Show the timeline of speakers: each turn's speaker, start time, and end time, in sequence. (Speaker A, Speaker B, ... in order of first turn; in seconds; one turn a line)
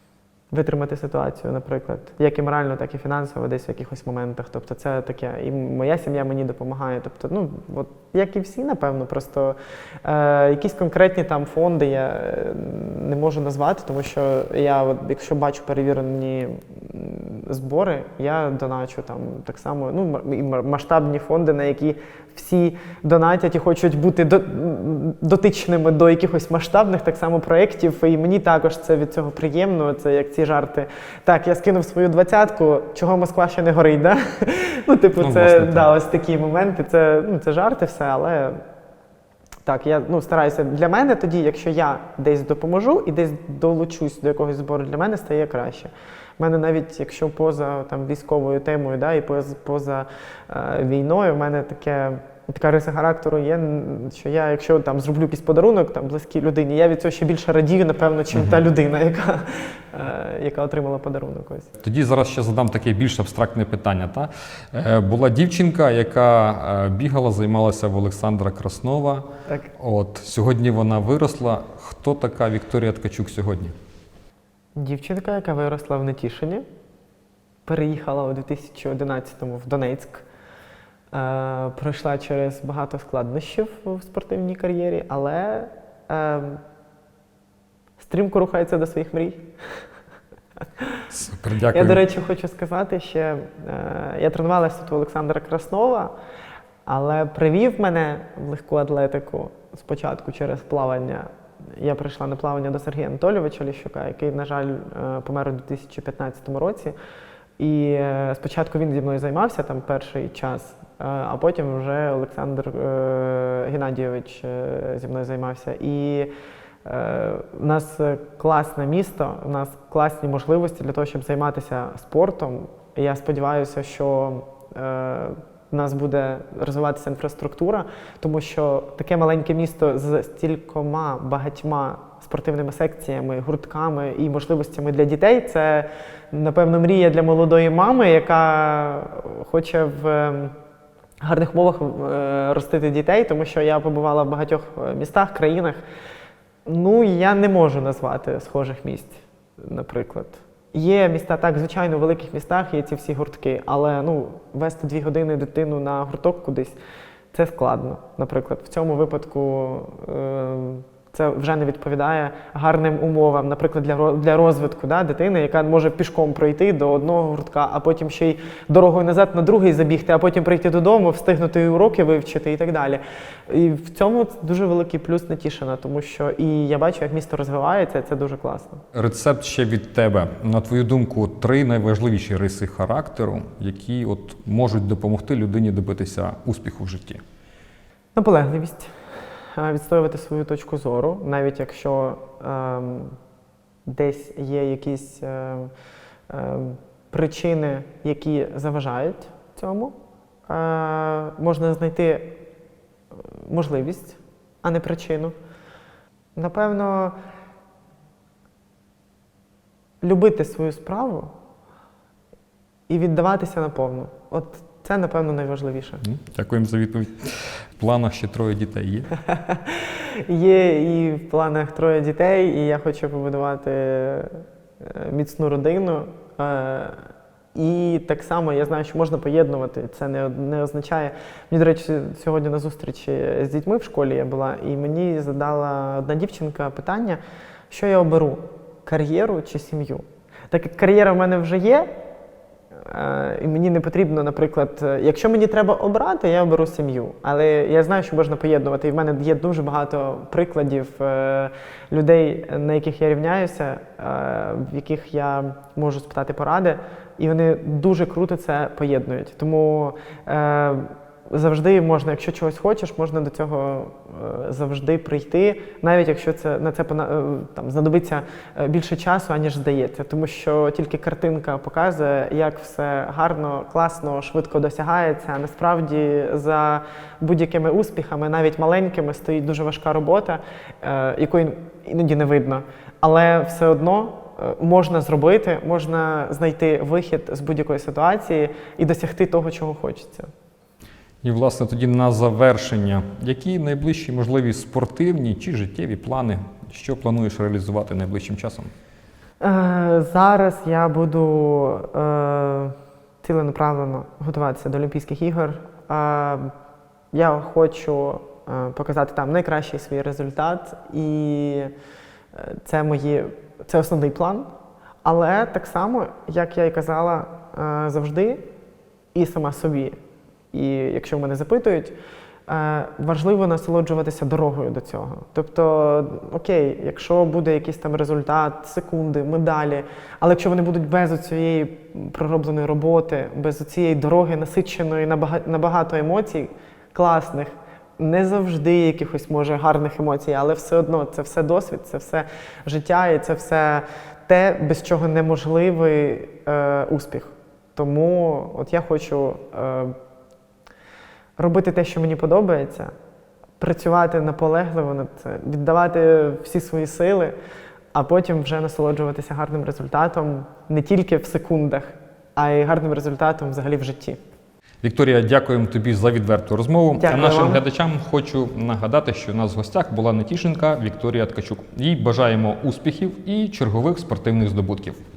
Speaker A: 0.5-38.6
Speaker B: 35.2-35.9
Speaker A: 39.7-61.7
Speaker B: 61.8-69.3
Speaker B: 69.8-73.7
Speaker A: 74.8-76.7
Speaker A: 77.7-80.3
Speaker A: 81.1-86.6
Speaker A: 88.0-89.5
Speaker B: 91.1-92.0
Speaker A: 91.7-96.1
Speaker A: 96.9-107.0
Speaker A: 107.6-116.3
Speaker A: 116.8-140.5
Speaker A: 141.2-145.8
Speaker A: 146.7-156.8
Speaker A: 157.3-178.8
Speaker B: 178.9-187.2
Speaker A: 188.2-188.9
Speaker A: 189.6-193.2
Speaker A: 193.9-195.7
Speaker A: 196.3-199.9
Speaker A: 200.5-202.4
Speaker A: 203.3-205.3
Speaker A: 206.4-207.2
Speaker A: 210.0-211.3
Speaker A: 212.9-216.0
Speaker B: 216.0-219.1
Speaker A: 219.3-227.0
Speaker A: 227.6-241.9
Speaker A: 242.8-290.3
Speaker B: 291.2-298.7
Speaker A: 299.4-306.5
Speaker A: 307.1-311.7
Speaker A: 312.3-314.5
Speaker A: 315.0-318.4
Speaker A: 319.1-320.0
Speaker A: 320.5-321.9
Speaker A: 322.5-349.9
Speaker A: 351.4-352.9
Speaker A: 353.6-357.4
Speaker A: 357.9-364.2
Speaker B: 364.8-375.0
Speaker A: 367.0-367.6